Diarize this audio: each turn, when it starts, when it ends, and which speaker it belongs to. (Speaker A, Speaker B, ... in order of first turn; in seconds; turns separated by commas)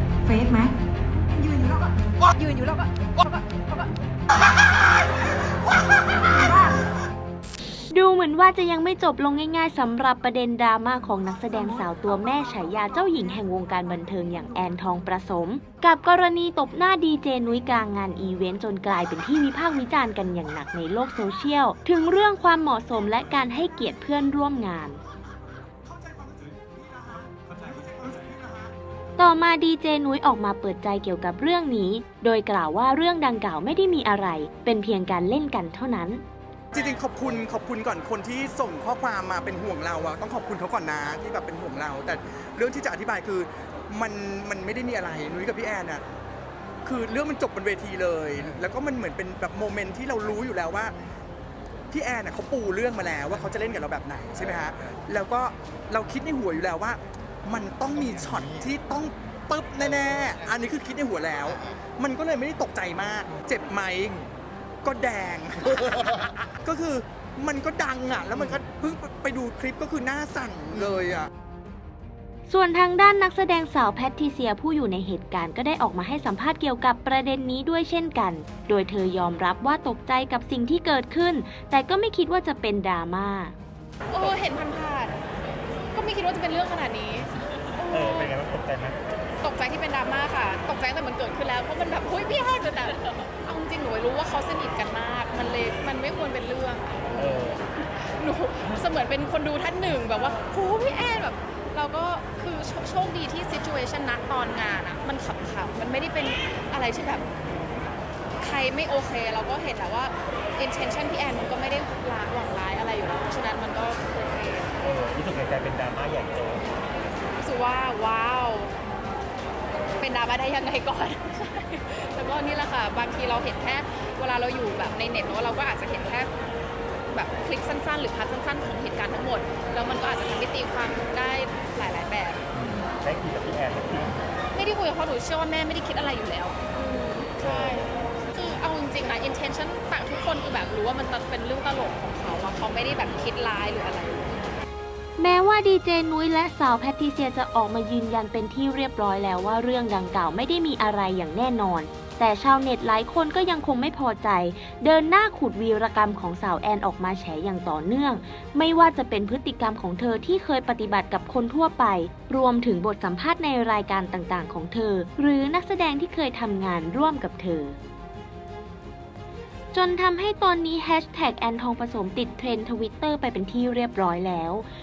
Speaker A: 0.2-0.7, Speaker A: 1.3-3.9, Speaker A: 6.1-6.8, Speaker B: 7.9-25.0, Speaker A: 11.5-14.9, Speaker A: 15.6-15.9, Speaker C: 23.1-24.1, Speaker C: 25.1-28.7, Speaker B: 29.2-36.2, Speaker C: 36.7-46.0, Speaker C: 46.8-51.0, Speaker C: 51.9-64.2, Speaker C: 64.8-71.3, Speaker B: 72.5-83.5, Speaker D: 84.1-85.2, Speaker D: 85.9-88.3, Speaker E: 87.2-89.0, Speaker D: 89.4-107.3, Speaker E: 97.1-97.6, Speaker D: 108.4-114.7, Speaker E: 114.8-116.8, Speaker D: 117.4-118.7, Speaker D: 120.0-126.3, Speaker D: 127.1-132.4, Speaker E: 132.5-134.2, Speaker D: 134.5-144.6, Speaker E: 137.4-137.9, Speaker B: 145.2-167.8, Speaker B: 169.7-174.7